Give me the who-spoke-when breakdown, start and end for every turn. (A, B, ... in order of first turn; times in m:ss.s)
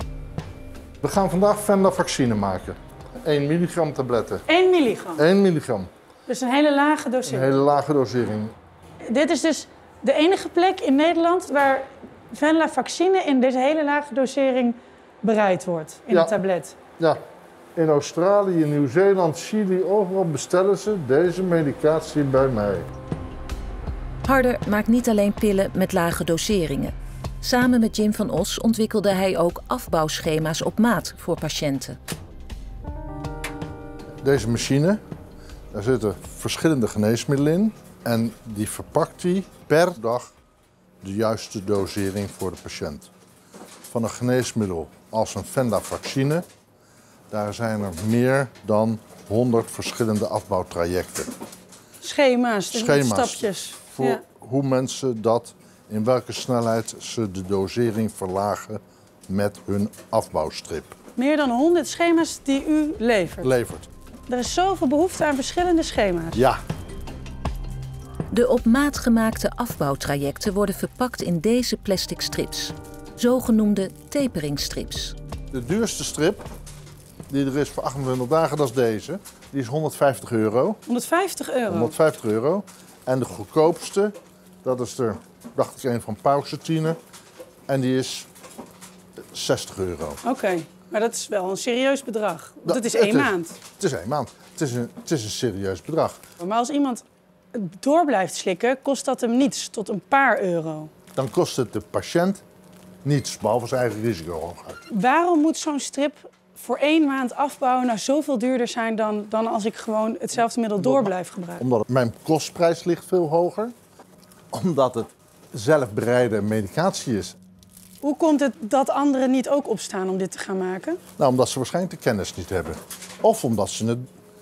0:01.0-0:04.4 A
0:04.5-0:05.2 B
0:05.2-0:05.9 A
0:06.3-0:07.5 B
0:07.3-0:08.5 A
0:09.0-0:16.8 B
0:16.1-0:16.4 A
0:17.8-0:22.9 A
0:24.2-0:32.0 C
0:34.2-0:35.0 A
0:35.7-0:40.4 A
0:41.0-0:43.1 A
0:43.9-0:46.5 A
0:47.3-0:51.3 A
0:52.0-0:54.2 B
0:52.7-1:01.0 A
1:01.2-1:03.4 B
1:03.4-1:03.9 A
1:04.3-1:06.4 B
1:06.3-1:06.6 A
1:08.3-1:15.2 C
1:15.5-1:16.5 A
1:17.3-1:20.8 A
1:20.9-1:21.9 B
1:21.7-1:27.0 A
1:27.7-1:28.3 A
1:29.3-1:30.2 A
1:30.3-1:33.6 B
1:32.6-1:36.2 A
1:36.4-1:40.9 B
1:41.2-1:42.4 A
1:43.0-1:44.8 A
1:44.9-1:51.6 B
1:50.8-1:53.8 A
1:54.5-1:57.4 A
1:58.0-2:01.0 B
2:01.2-2:04.0 A